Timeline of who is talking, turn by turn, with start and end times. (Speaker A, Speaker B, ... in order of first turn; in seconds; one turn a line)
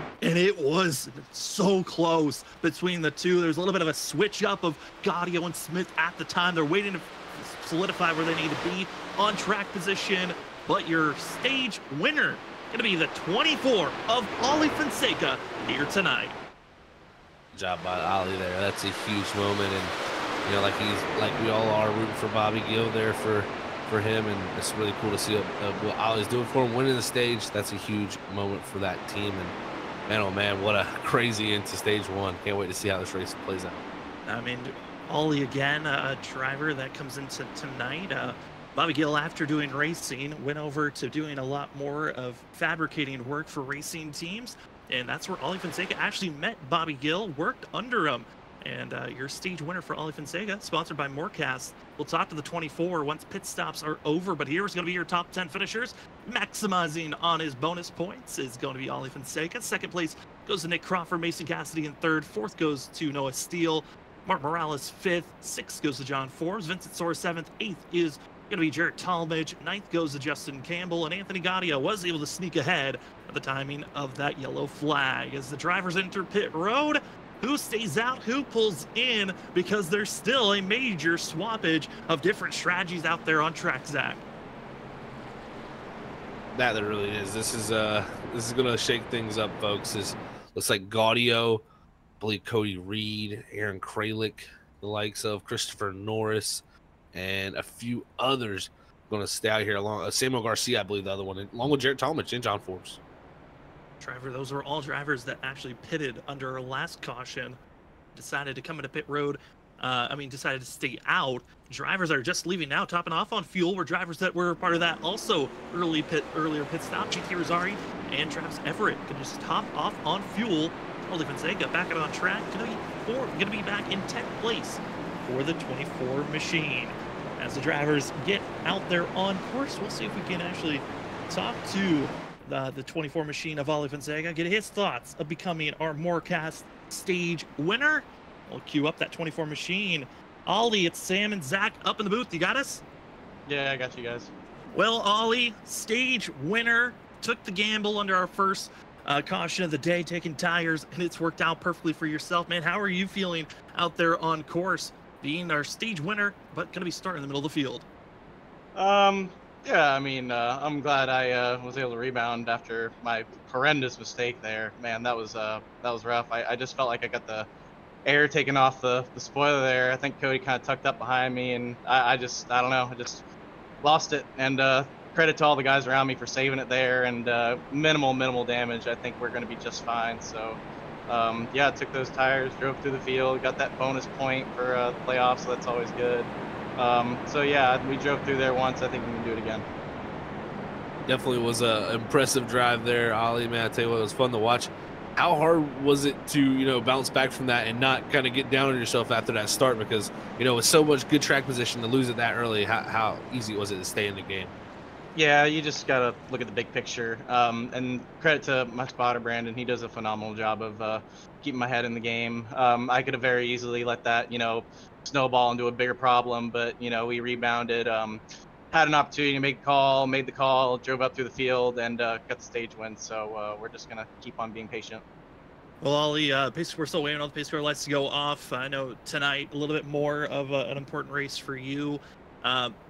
Speaker A: 0.2-16.4
Speaker B: 17.5-29.5
Speaker B: 30.1-33.8
Speaker A: 34.2-84.2
Speaker B: 86.5-91.6
Speaker B: 92.2-103.0
Speaker A: 104.0-107.6
Speaker A: 108.1-142.8
Speaker C: 143.5-144.3
Speaker A: 144.7-157.8
Speaker C: 158.7-167.5
Speaker C: 168.0-173.2
Speaker C: 173.8-189.7
Speaker B: 191.1-204.5
Speaker C: 205.1-225.0
Speaker A: 225.8-232.7